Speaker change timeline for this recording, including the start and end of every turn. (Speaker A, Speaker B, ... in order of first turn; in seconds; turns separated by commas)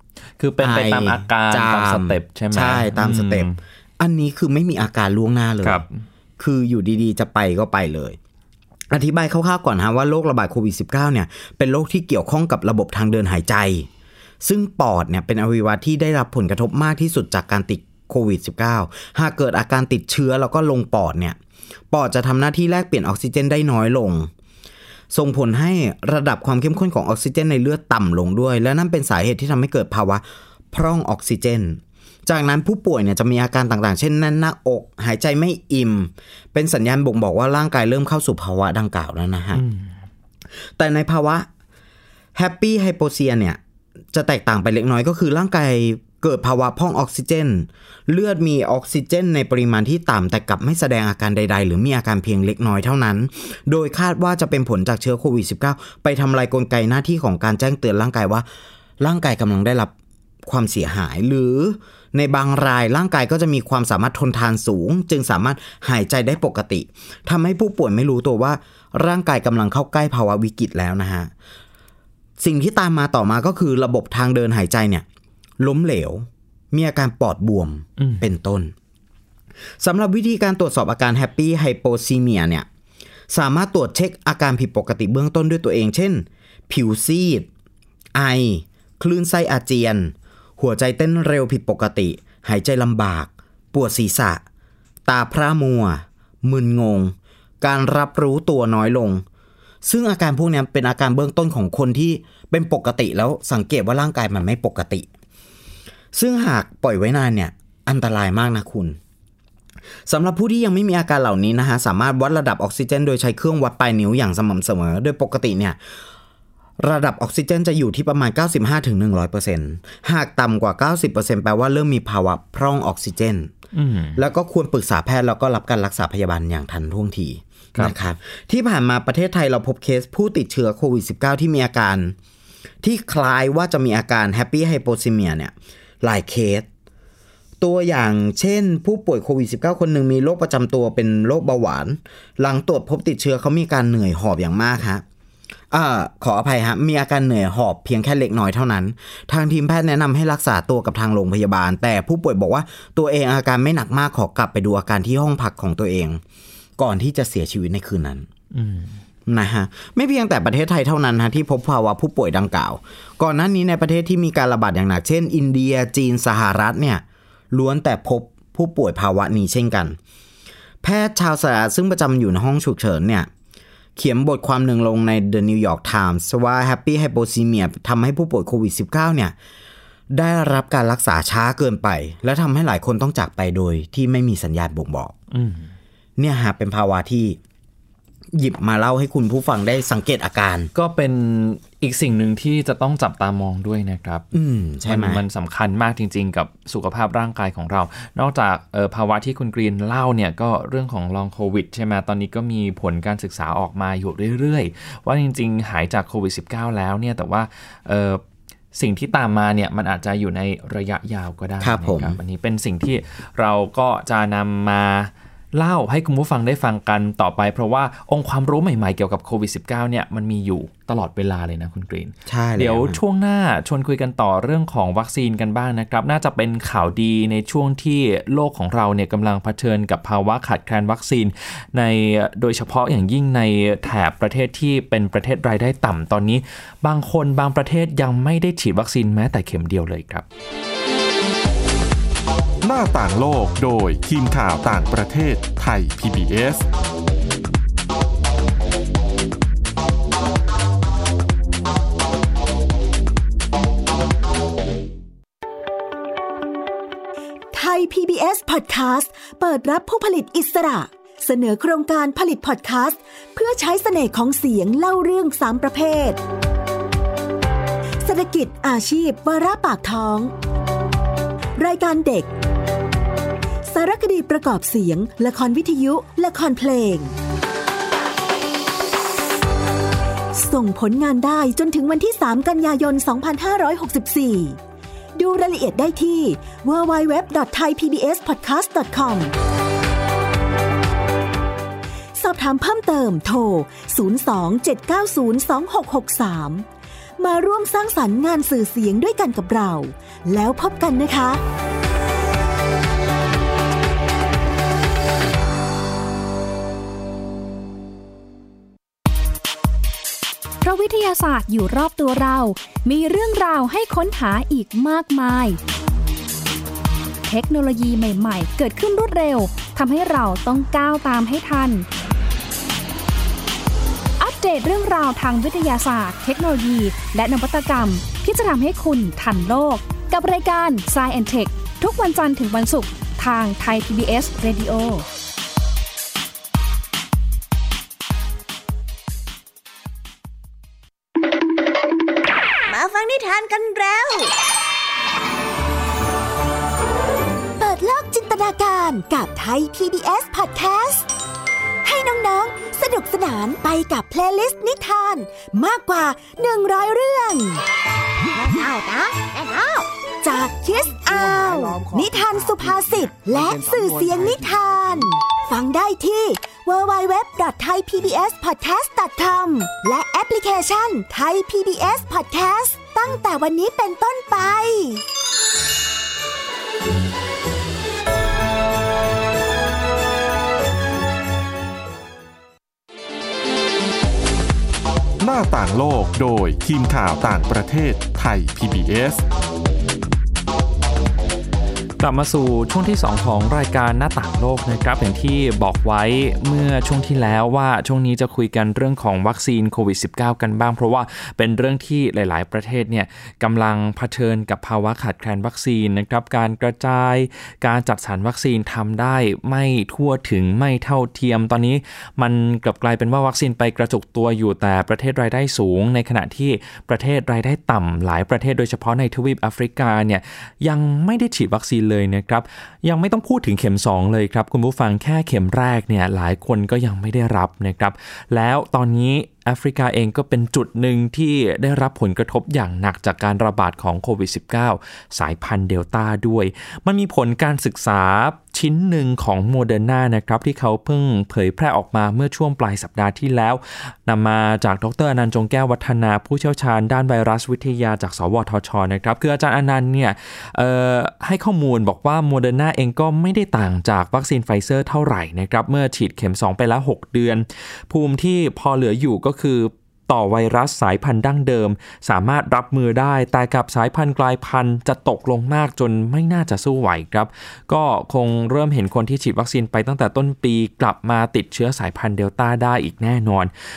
Speaker A: 0.4-3.6, Speaker B: 0.6-5.8, Speaker A: 5.6-6.0, Speaker B: 6.4-8.2, Speaker B: 8.9-13.9, Speaker B: 14.4-21.4, Speaker B: 21.9-24.3, Speaker B: 25.1-39.6, Speaker A: 39.5-39.9, Speaker B: 40.8-41.5, Speaker B: 42.4-43.6, Speaker B: 44.1-58.5, Speaker B: 59.0-59.9, Speaker B: 60.5-71.3, Speaker B: 72.4-75.0, Speaker B: 75.6-78.7, Speaker A: 78.0-78.3, Speaker B: 79.8-82.7, Speaker B: 83.3-87.5, Speaker B: 88.2-94.4, Speaker B: 95.1-99.2, Speaker B: 99.8-105.1, Speaker B: 106.1-109.0, Speaker B: 110.1-115.8, Speaker B: 116.8-123.5, Speaker A: 123.7-124.2, Speaker B: 124.2-132.2, Speaker B: 132.8-136.7, Speaker B: 137.6-145.0, Speaker B: 145.7-156.2, Speaker B: 156.8-158.3, Speaker A: 158.5-158.9, Speaker B: 159.3-170.0, Speaker B: 170.8-173.3, Speaker B: 174.0-179.3, Speaker B: 180.1-185.2, Speaker A: 185.3-185.7, Speaker B: 186.2-187.4, Speaker B: 188.3-190.7, Speaker A: 190.8-194.2, Speaker B: 194.3-195.2, Speaker A: 194.8-208.2, Speaker A: 208.7-240.2, Speaker B: 211.6-212.2, Speaker B: 222.3-223.0, Speaker C: 242.6-246.7, Speaker D: 257.5-266.2, Speaker D: 268.0-270.3, Speaker D: 271.6-272.3, Speaker D: 273.7-277.1, Speaker D: 280.4-284.6, Speaker D: 285.2-289.3, Speaker D: 292.2-296.6, Speaker D: 297.2-301.4, Speaker E: 310.6-315.6, Speaker E: 317.3-321.9, Speaker E: 324.2-335.1, Speaker F: 342.7-344.3, Speaker D: 347.6-351.1, Speaker D: 351.8-357.6, Speaker F: 358.3-359.9, Speaker D: 360.2-375.0, Speaker C: 385.2-389.2, Speaker A: 392.0-473.5